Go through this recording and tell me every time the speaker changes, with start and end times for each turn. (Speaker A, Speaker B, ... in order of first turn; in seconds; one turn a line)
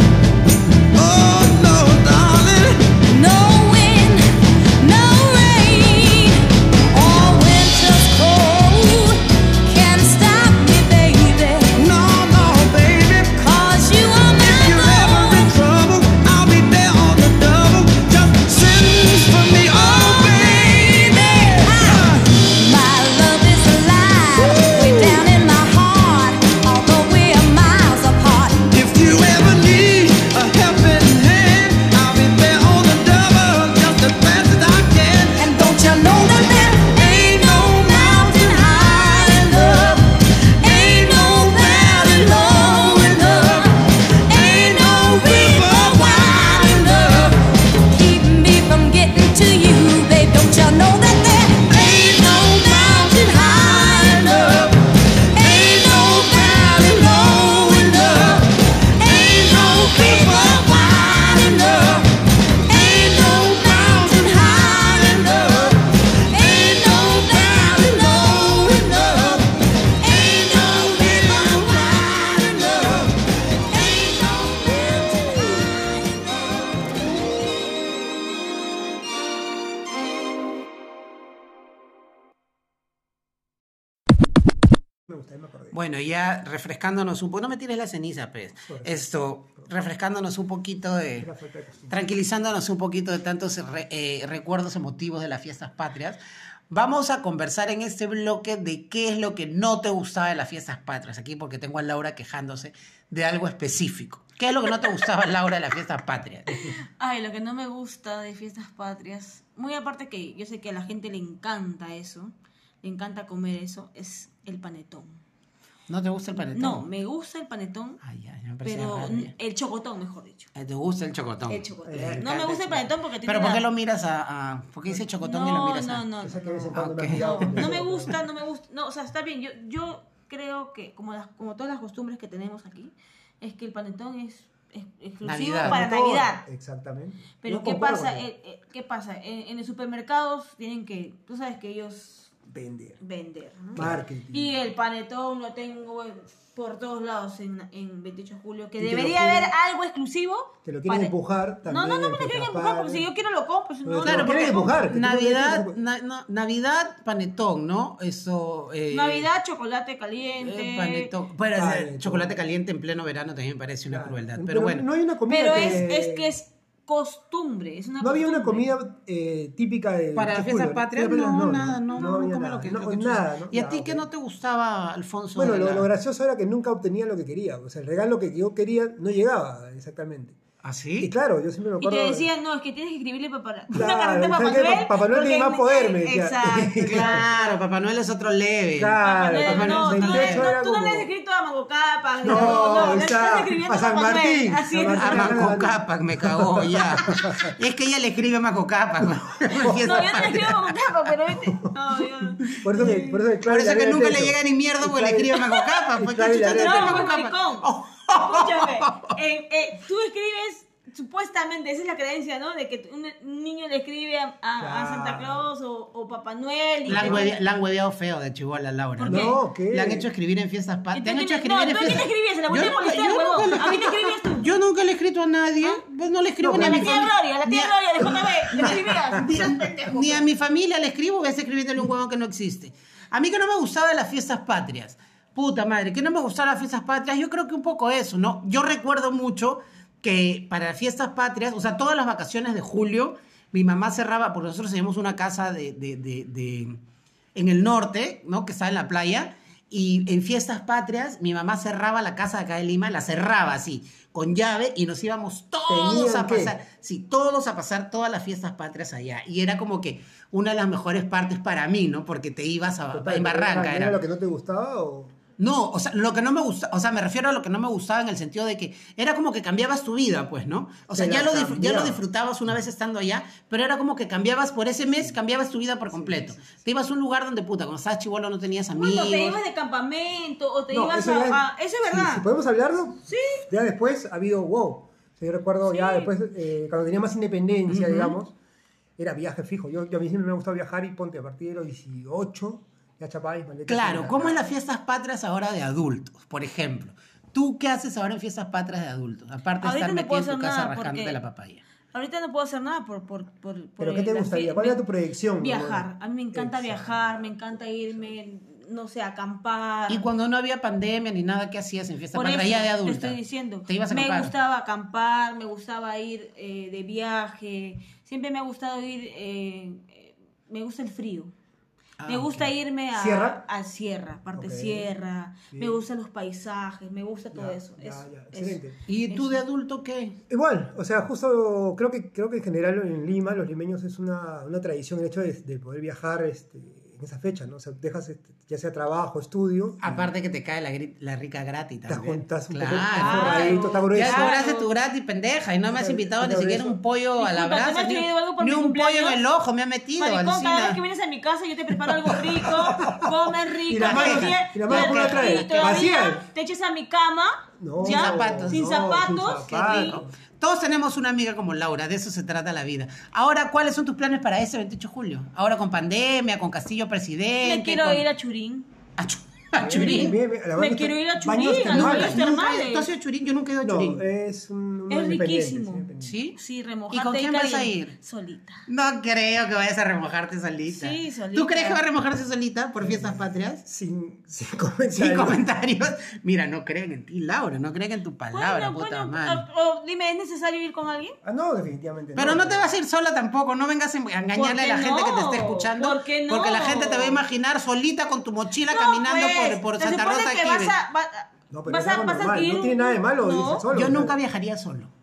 Speaker A: 0.9-2.9
Speaker B: 3.0-11.8
Speaker A: 11.7-13.5
Speaker B: 13.4-15.6
Speaker A: 14.4-22.3
Speaker B: 19.6-28.7
Speaker A: 24.4-25.2
Speaker A: 28.7-36.8
Speaker B: 35.4-77.9
Speaker A: 42.2-43.4
Speaker A: 45.2-46.0
Speaker C: 85.1-85.8
Speaker D: 85.7-91.3
Speaker C: 91.2-92.0
Speaker D: 91.9-96.2
Speaker D: 96.7-106.8
Speaker E: 106.5-115.2
Speaker D: 115.9-116.9
Speaker E: 116.5-118.0
Speaker D: 118.0-119.3
Speaker E: 118.6-120.5
Speaker D: 120.6-122.6
Speaker E: 121.5-123.7
Speaker C: 121.8-122.9
Speaker D: 123.2-128.1
Speaker E: 125.2-136.4
Speaker C: 126.2-128.2
Speaker D: 135.2-135.8
Speaker C: 135.6-138.3
Speaker E: 137.4-142.3
Speaker C: 142.5-143.0
Speaker E: 143.0-151.1
Speaker C: 143.8-144.6
Speaker D: 143.8-144.0
Speaker C: 148.8-149.5
Speaker C: 150.7-153.1
Speaker E: 151.7-154.9
Speaker C: 153.8-155.8
Speaker D: 154.0-159.3
Speaker E: 158.9-161.1
Speaker D: 160.4-164.8
Speaker C: 161.5-162.4
Speaker C: 163.9-166.3
Speaker E: 165.3-168.7
Speaker D: 165.5-165.8
Speaker C: 168.0-174.1
Speaker D: 170.2-175.9
Speaker C: 175.4-180.4
Speaker D: 180.6-181.1
Speaker C: 181.0-182.3
Speaker E: 181.8-187.2
Speaker C: 183.7-187.3
Speaker D: 186.8-190.5
Speaker C: 188.8-191.1
Speaker E: 189.0-195.4
Speaker C: 192.2-197.6
Speaker D: 192.2-193.0
Speaker D: 194.9-200.7
Speaker C: 199.5-200.3
Speaker E: 199.8-203.1
Speaker C: 202.6-207.1
Speaker D: 203.4-209.1
Speaker E: 206.5-217.3
Speaker C: 214.6-215.5
Speaker D: 216.9-246.8
Speaker C: 216.9-217.3
Speaker E: 219.0-219.4
Speaker C: 219.0-220.1
Speaker E: 220.9-224.5
Speaker C: 226.4-227.1
Speaker E: 226.5-230.2
Speaker C: 228.6-229.6
Speaker D: 247.3-264.0
Speaker C: 255.7-256.6
Speaker C: 262.9-265.1
Speaker D: 265.4-279.4
Speaker C: 270.9-272.0
Speaker C: 275.9-276.6
Speaker E: 278.8-282.3
Speaker C: 280.7-288.3
Speaker E: 283.1-283.4
Speaker E: 285.6-286.1
Speaker D: 287.7-288.2
Speaker C: 289.0-294.4
Speaker D: 293.7-301.6
Speaker E: 299.6-301.2
Speaker E: 301.9-304.8
Speaker C: 303.8-308.1
Speaker E: 305.4-310.0
Speaker D: 309.9-314.3
Speaker E: 312.1-321.3
Speaker D: 322.0-322.5
Speaker E: 322.1-329.4
Speaker C: 322.9-323.4
Speaker C: 324.4-324.9
Speaker C: 325.5-325.8
Speaker C: 327.3-328.8
Speaker D: 328.9-330.2
Speaker C: 330.3-340.1
Speaker D: 339.8-350.8
Speaker C: 341.9-344.4
Speaker E: 342.9-344.8
Speaker C: 345.7-346.8
Speaker E: 347.2-349.2
Speaker E: 350.0-360.0
Speaker D: 351.9-352.8
Speaker C: 352.6-353.1
Speaker C: 353.7-356.2
Speaker D: 353.8-355.9
Speaker C: 357.6-360.1
Speaker D: 357.8-358.7
Speaker D: 359.5-368.1
Speaker E: 367.4-368.7
Speaker D: 369.0-370.2
Speaker C: 369.6-372.3
Speaker E: 369.7-372.9
Speaker D: 371.7-374.0
Speaker C: 373.6-376.2
Speaker E: 374.9-378.6
Speaker D: 376.0-376.4
Speaker D: 376.9-377.9
Speaker D: 378.7-383.6
Speaker E: 380.7-381.8
Speaker C: 382.8-385.4
Speaker D: 384.9-389.4
Speaker E: 388.3-391.2
Speaker C: 391.2-392.7
Speaker D: 392.1-400.8
Speaker E: 394.4-397.2
Speaker E: 398.7-403.6
Speaker C: 401.5-404.2
Speaker D: 403.7-404.9